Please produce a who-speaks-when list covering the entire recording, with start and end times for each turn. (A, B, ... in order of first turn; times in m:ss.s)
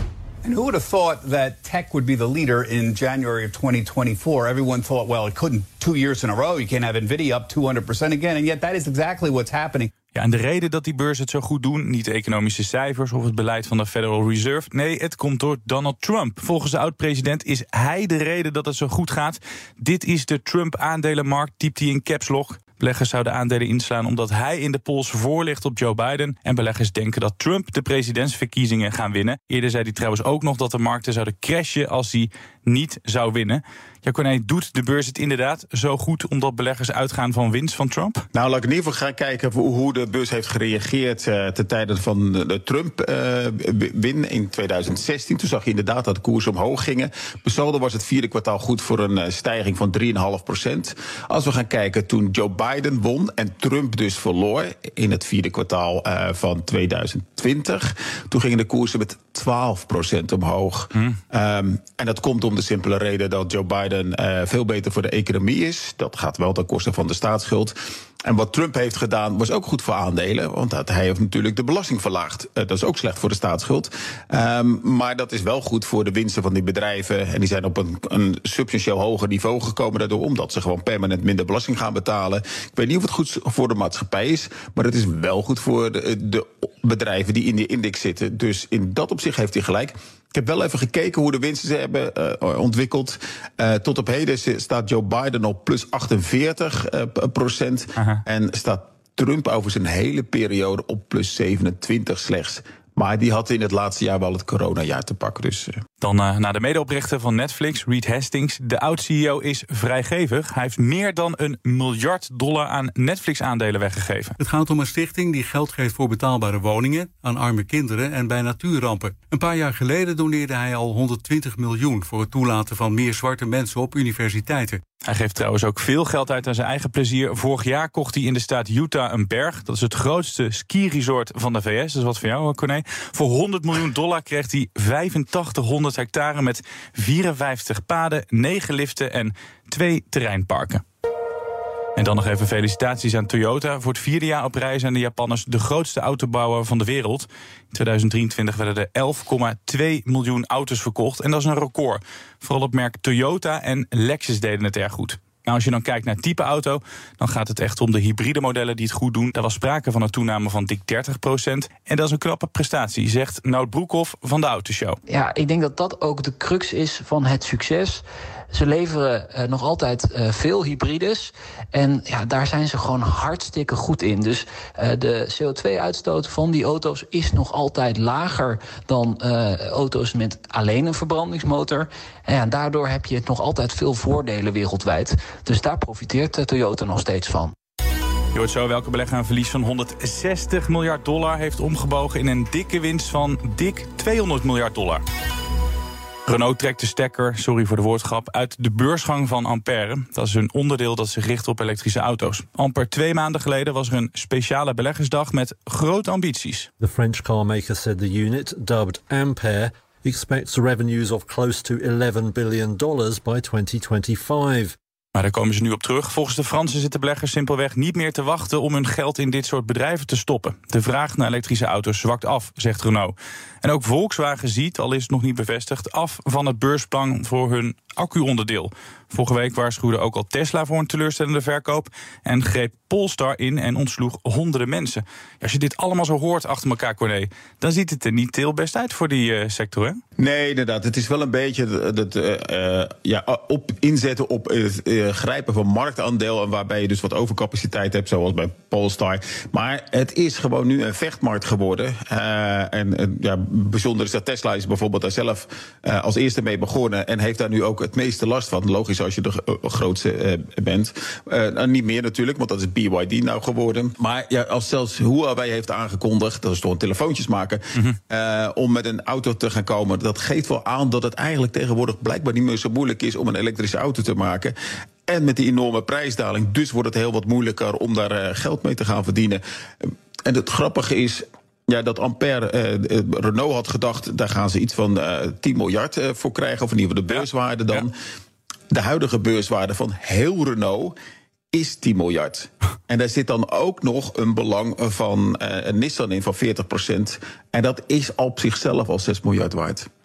0:00.4-0:09.9 A
0:10.2-0:38.2 B
0:38.3-1:45.8 C
1:46.0-1:54.3 B
1:54.4-2:04.8 D
2:05.1-2:20.8 B
2:22.0-2:45.0 B
2:45.1-3:07.5 E
3:08.3-3:15.0 B
3:16.3-3:26.7 B
3:26.8-3:34.7 F
3:35.2-4:00.0 B
4:00.2-4:34.6 C
4:35.1-4:47.9 C
4:47.2-4:47.8 B
4:48.7-4:51.0 C
4:51.5-4:59.9 C